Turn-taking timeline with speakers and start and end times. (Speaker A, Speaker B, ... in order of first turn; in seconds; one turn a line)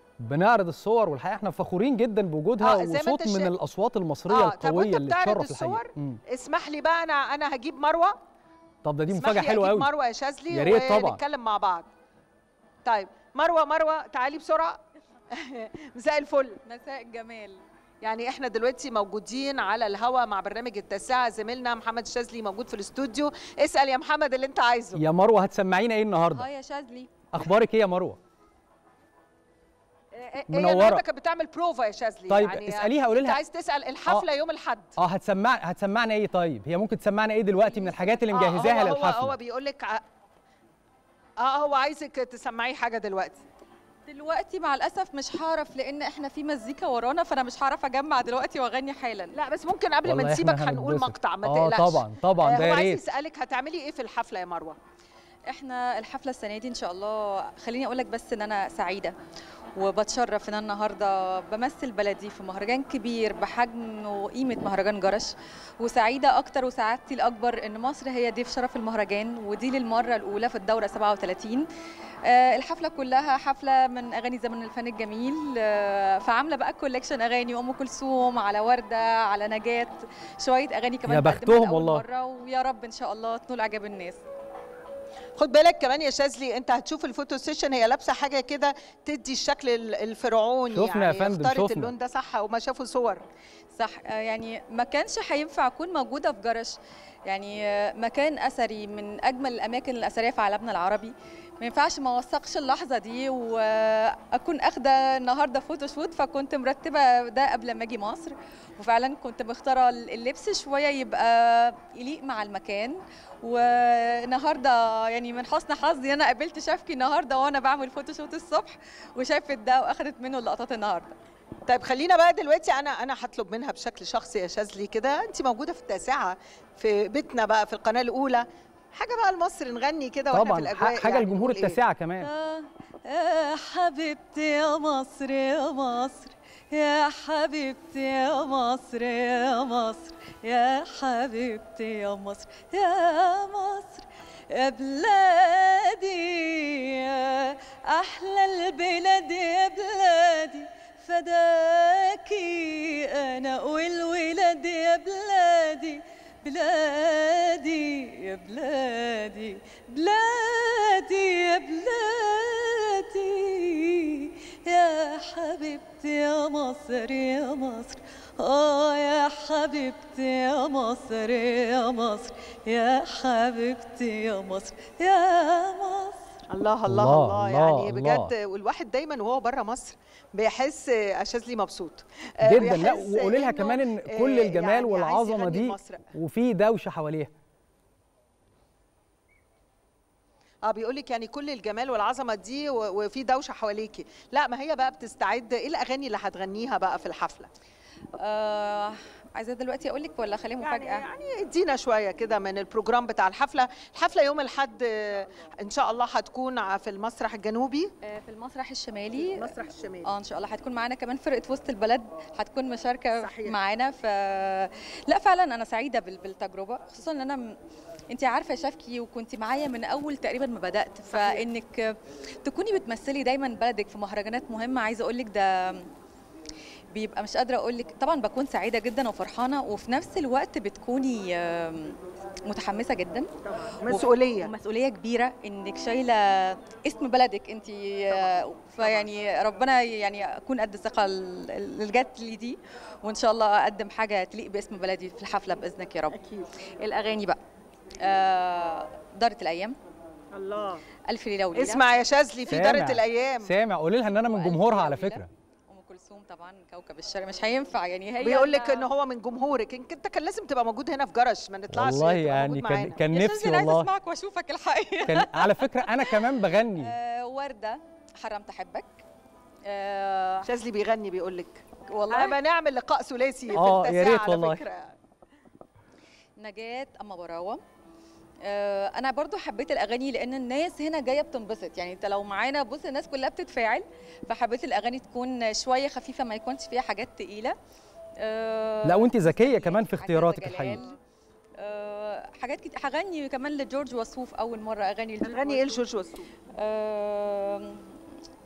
Speaker A: 0.2-6.2
Speaker B: 2.6-3.5
Speaker B: 4.3-8.2
Speaker A: 8.8-9.9
Speaker B: 9.1-11.8
Speaker A: 10.5-11.2
Speaker B: 12.8-14.8
Speaker B: 15.3-16.6
Speaker C: 16.7-17.6
Speaker B: 18.0-25.0
Speaker A: 24.9-26.5
Speaker C: 26.3-27.1
Speaker A: 27.3-28.2
Speaker B: 30.1-35.0
Speaker A: 30.5-31.0
Speaker A: 32.3-33.4
Speaker A: 35.0-39.4
Speaker C: 37.6-38.8
Speaker B: 38.3-40.0
Speaker B: 41.4-43.4
Speaker C: 44.1-49.4
Speaker B: 49.3-54.8
Speaker A: 50.0-53.0
Speaker C: 55.5-59.2
Speaker C: 59.8-71.7
Speaker C: 72.2-84.2
Speaker A: 81.1-82.0
Speaker B: 85.4-93.2
Speaker A: 90.7-91.9
Speaker C: 93.8-96.8
Speaker C: 97.3-121.1
Speaker B: 121.7-131.8
Speaker A: 130.3-132.3
Speaker C: 132.2-176.3
Speaker B: 176.5-186.1
Speaker A: 176.9-178.3
Speaker A: 182.4-187.3
Speaker B: 190.7-197.5
Speaker C: 198.2-201.1
Speaker B: 200.6-207.9
Speaker C: 208.0-209.5
Speaker B: 209.2-210.1
Speaker C: 210.0-217.6
Speaker B: 213.2-213.6
Speaker C: 218.1-225.9
Speaker B: 221.1-221.5
Speaker C: 226.9-233.3
Speaker B: 233.5-234.5
Speaker C: 233.8-246.2
Speaker B: 238.1-239.1
Speaker B: 246.1-246.5
Speaker C: 246.8-247.4
Speaker C: 248.0-249.8
Speaker B: 250.3-250.8
Speaker C: 251.1-251.8
Speaker B: 251.5-253.5
Speaker A: 252.5-255.3
Speaker C: 254.2-258.9
Speaker B: 258.2-263.0
Speaker A: 261.7-263.9
Speaker C: 263.1-269.0
Speaker A: 265.1-266.9
Speaker C: 269.6-270.5
Speaker B: 270.4-274.9
Speaker C: 271.9-272.4
Speaker A: 273.5-274.6
Speaker C: 276.4-277.6
Speaker C: 278.4-287.5
Speaker C: 288.2-291.0
Speaker A: 288.8-290.8
Speaker C: 291.6-295.8
Speaker B: 295.2-296.3
Speaker C: 296.5-298.0